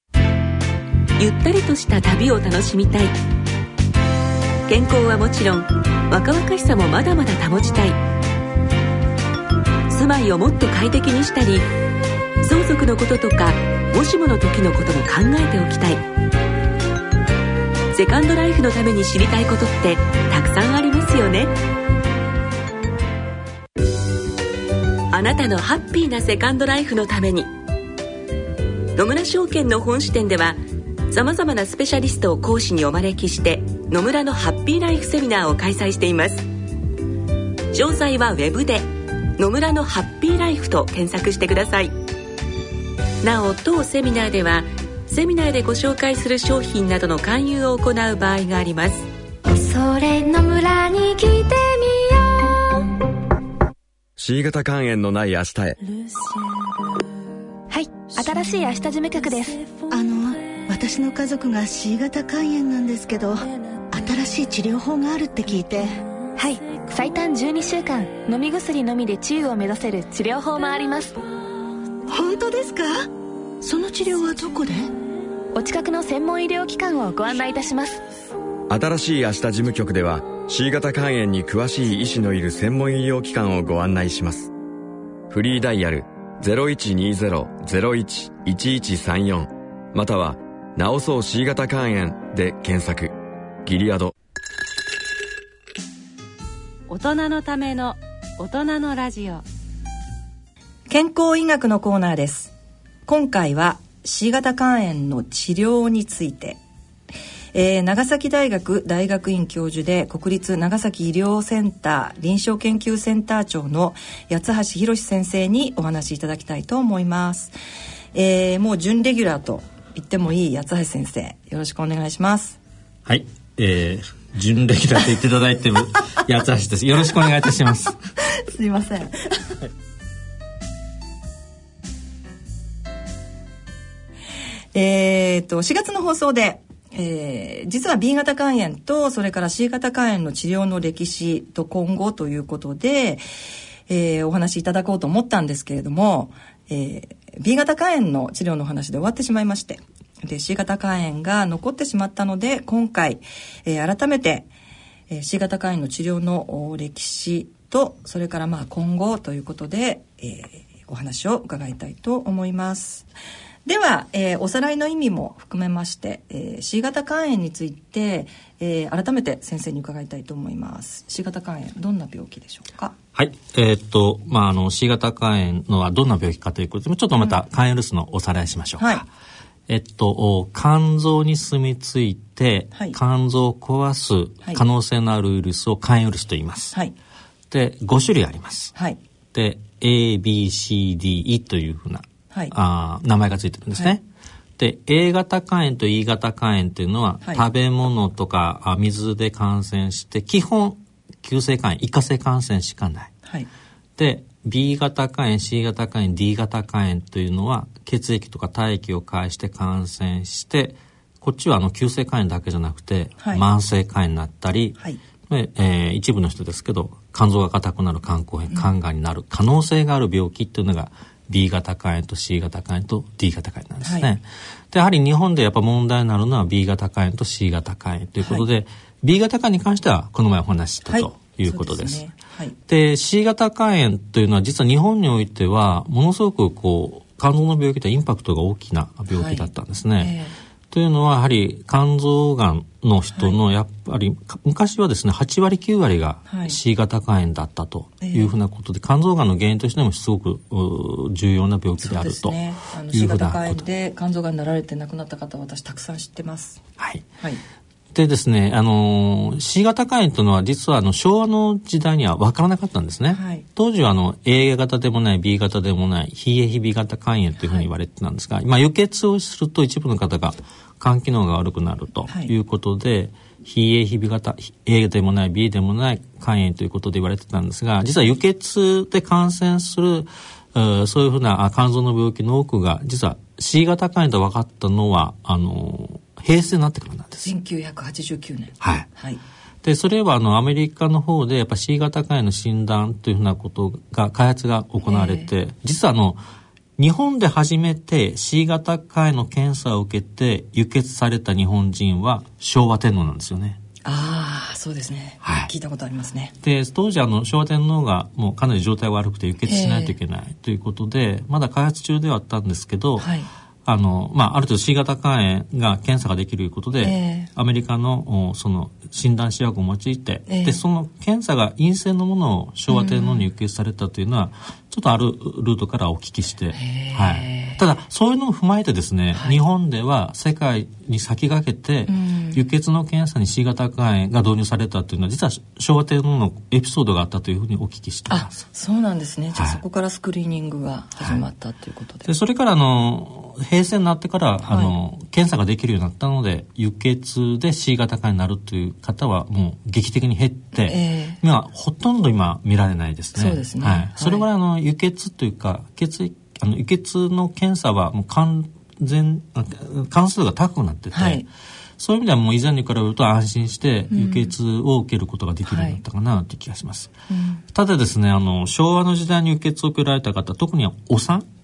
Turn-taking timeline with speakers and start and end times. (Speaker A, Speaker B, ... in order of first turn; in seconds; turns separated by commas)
Speaker A: 1.2-3.1, Speaker A: 4.7-8.0, Speaker A: 9.9-11.7, Speaker A: 12.4-16.0, Speaker A: 17.9-21.5, Speaker A: 25.1-27.5, Speaker A: 28.9-36.5, Speaker A: 37.7-38.9, Speaker A: 39.4-41.9, Speaker A: 43.2-49.1, Speaker B: 49.5-52.8, Speaker C: 54.2-55.8, Speaker B: 57.7-59.6, Speaker D: 59.9-66.0, Speaker B: 66.3-71.2, Speaker D: 72.1-73.1, Speaker D: 73.6-74.9, Speaker B: 75.5-78.0, Speaker C: 78.7-84.5, Speaker C: 85.3-93.1, Speaker C: 93.6-94.1, Speaker E: 96.9-99.4, Speaker F: 100.9-102.5, Speaker F: 103.0-106.6, Speaker F: 107.5-117.5, Speaker F: 118.1-122.6, Speaker G: 123.0-128.0, Speaker F: 128.3-129.5, Speaker F: 134.7-143.2, Speaker F: 143.9-154.5, Speaker F: 155.1-163.1, Speaker F: 163.7-172.9, Speaker G: 173.1-179.1, Speaker F: 178.8-179.0, Speaker G: 179.7-186.8, Speaker G: 187.5-188.7, Speaker G: 189.3-194.0, Speaker G: 194.6-203.1, Speaker G: 204.0-214.8, Speaker F: 213.2-213.4, Speaker G: 215.3-232.0, Speaker F: 223.8-224.1, Speaker F: 230.9-232.6, Speaker G: 232.7-240.1, Speaker F: 239.1-240.3, Speaker G: 240.7-252.4, Speaker F: 246.3-246.6, Speaker F: 248.0-248.3, Speaker F: 251.8-256.6, Speaker G: 252.9-253.6, Speaker G: 256.8-257.0, Speaker G: 257.9-287.3, Speaker F: 263.1-263.4, Speaker F: 287.2-289.2, Speaker G: 288.6-288.9, Speaker G: 289.6-296.2, Speaker F: 294.8-295.3, Speaker G: 296.8-303.6, Speaker F: 303.8-306.3, Speaker G: 305.2-305.5, Speaker G: 306.4-313.1, Speaker F: 309.4-309.9, Speaker F: 313.0-313.3, Speaker G: 313.6-338.4, Speaker F: 316.8-317.3, Speaker F: 320.3-320.6, Speaker F: 322.7-323.3, Speaker F: 326.5-327.6, Speaker F: 331.9-332.4, Speaker F: 338.1-342.1, Speaker G: 342.0-361.2, Speaker F: 344.4-344.7, Speaker F: 350.6-351.2, Speaker F: 353.1-354.2, Speaker F: 360.9-361.2, Speaker G: 361.8-366.9, Speaker F: 363.9-364.3, Speaker F: 365.5-365.8, Speaker F: 367.1-367.4, Speaker G: 367.5-371.3